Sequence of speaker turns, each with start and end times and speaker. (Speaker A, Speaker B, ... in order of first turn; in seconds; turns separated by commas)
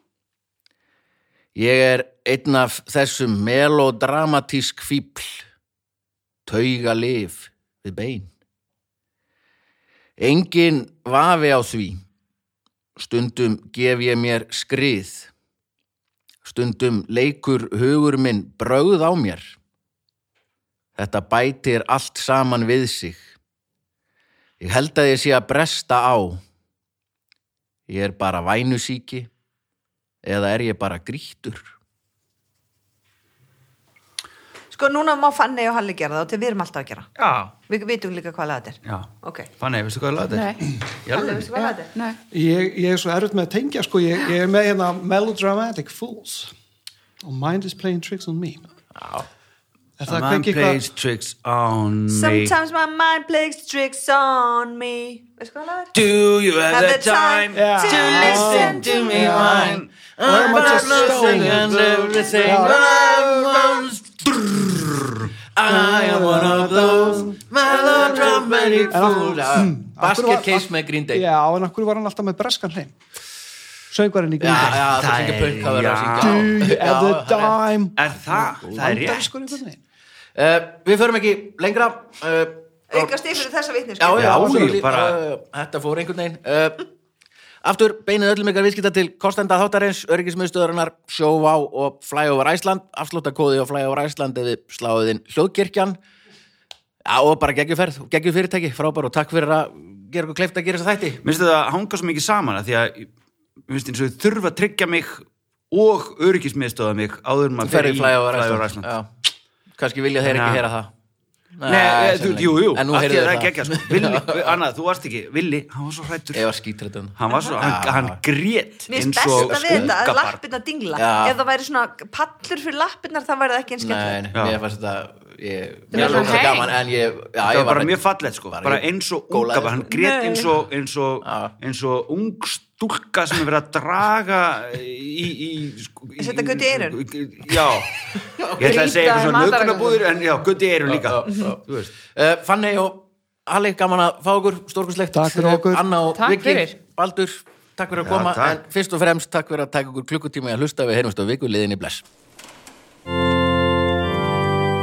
Speaker A: 1.5-5.5, Speaker A: 6.5-8.3, Speaker A: 10.2-12.0, Speaker A: 12.9-15.3, Speaker A: 16.4-19.6, Speaker A: 20.9-23.3, Speaker A: 24.6-26.4, Speaker A: 27.9-29.3, Speaker A: 30.2-31.6, Speaker B: 34.7-37.1, Speaker C: 37.2-37.5, Speaker B: 37.7-39.5, Speaker C: 38.8-41.6, Speaker D: 40.3-40.7, Speaker B: 41.1-41.9, Speaker D: 41.5-42.2, Speaker E: 42.3-46.5, Speaker E: 47.2-48.6, Speaker A: 49.0-49.3, Speaker E: 50.0-50.8, Speaker C: 50.1-52.5, Speaker B: 52.1-56.0, Speaker C: 55.9-63.8, Speaker B: 56.7-59.1, Speaker E: 57.5-61.7, Speaker A: 58.1-71.3, Speaker E: 62.4-62.9, Speaker C: 64.6-65.1, Speaker E: 65.7-67.4, Speaker C: 67.8-69.1, Speaker E: 68.9-72.9, Speaker E: 73.9-74.9, Speaker A: 74.4-77.6, Speaker C: 74.5-76.6, Speaker E: 76.2-79.8, Speaker C: 78.0-79.6, Speaker A: 80.3-83.2, Speaker B: 82.9-84.4, Speaker A: 84.0-86.8, Speaker C: 84.1-85.2, Speaker E: 84.3-84.8, Speaker A: 87.6-96.0, Speaker A: 97.0-101.2, Speaker C: 101.2-103.1, Speaker C: 103.7-108.9, Speaker A: 107.6-109.1, Speaker A: 109.8-110.9, Speaker C: 110.2-110.6, Speaker A: 111.6-114.6, Speaker C: 111.7-116.5, Speaker A: 116.3-118.2, Speaker C: 117.2-120.4, Speaker B: 118.9-124.2, Speaker A: 119.3-119.9, Speaker A: 121.0-121.3, Speaker A: 123.8-128.0, Speaker C: 124.3-124.6, Speaker D: 125.9-126.7, Speaker C: 125.9-126.5, Speaker C: 127.4-141.9, Speaker A: 128.5-129.9, Speaker B: 129.9-130.5, Speaker A: 131.2-131.5, Speaker B: 136.2-137.0, Speaker A: 138.3-139.2, Speaker D: 138.6-140.0, Speaker A: 140.8-152.0, Speaker B: 141.3-141.5, Speaker E: 145.1-145.8, Speaker D: 146.1-146.8, Speaker C: 148.0-148.6